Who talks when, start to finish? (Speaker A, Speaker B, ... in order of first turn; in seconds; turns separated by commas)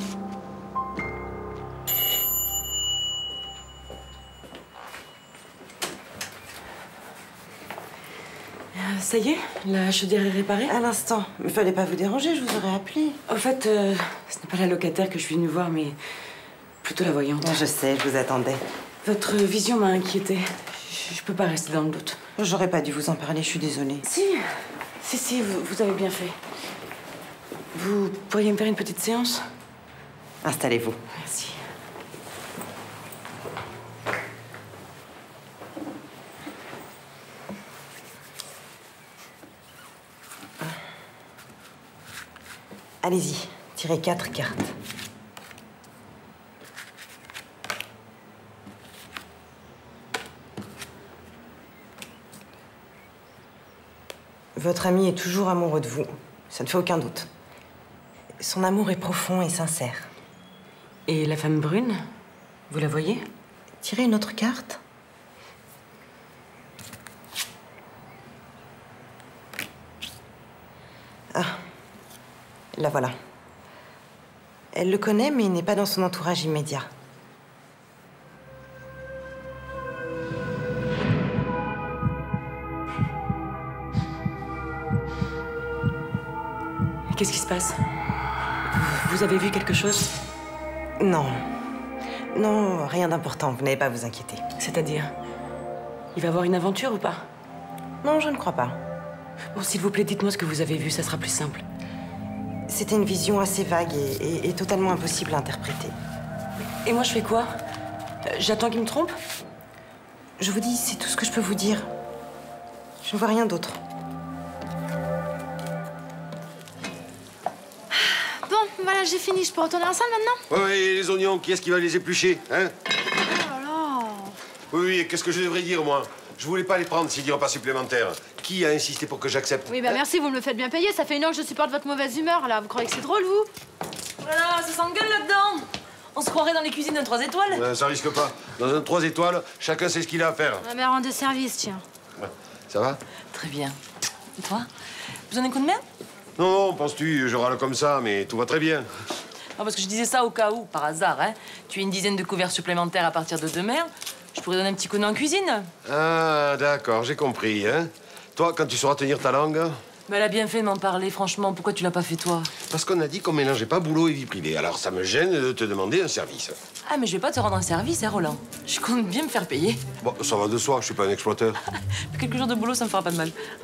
Speaker A: 8.7-10.7, Speaker B: 10.7-13.2, Speaker A: 13.3-16.0, Speaker A: 16.8-17.6, Speaker B: 17.4-18.6, Speaker A: 19.0-22.2, Speaker B: 22.4-24.0, Speaker A: 24.0-24.4, Speaker A: 25.0-26.4, Speaker A: 27.7-29.4, Speaker B: 30.4-31.0, Speaker A: 31.1-31.6, Speaker B: 43.0-44.7, Speaker B: 54.5-57.3, Speaker B: 58.4-60.1, Speaker A: 61.1-62.0, Speaker A: 62.7-63.3, Speaker B: 63.8-64.8, Speaker B: 71.3-71.6, Speaker B: 72.7-73.1, Speaker B: 74.7-76.9, Speaker A: 87.1-87.8, Speaker A: 88.7-90.1, Speaker B: 91.0-91.4, Speaker B: 92.3-94.4, Speaker A: 94.6-95.1, Speaker A: 96.1-97.3, Speaker B: 98.0-98.8, Speaker A: 99.5-101.6, Speaker B: 102.7-105.9, Speaker A: 106.8-107.5, Speaker A: 108.2-109.1, Speaker B: 110.4-111.9, Speaker B: 113.0-113.8, Speaker C: 117.9-120.4, Speaker D: 120.5-122.7, Speaker C: 123.3-124.3, Speaker D: 124.7-130.0, Speaker C: 129.7-133.5, Speaker A: 134.2-137.7, Speaker D: 137.5-140.6, Speaker C: 140.6-141.8, Speaker D: 142.2-143.0, Speaker A: 143.3-143.8, Speaker A: 144.4-144.7, Speaker A: 145.3-145.8, Speaker D: 146.4-148.8, Speaker A: 149.6-155.7, Speaker D: 155.8-159.8, Speaker A: 160.1-162.5, Speaker D: 162.7-166.5, Speaker A: 166.8-169.8, Speaker D: 170.0-171.6, Speaker A: 172.1-173.3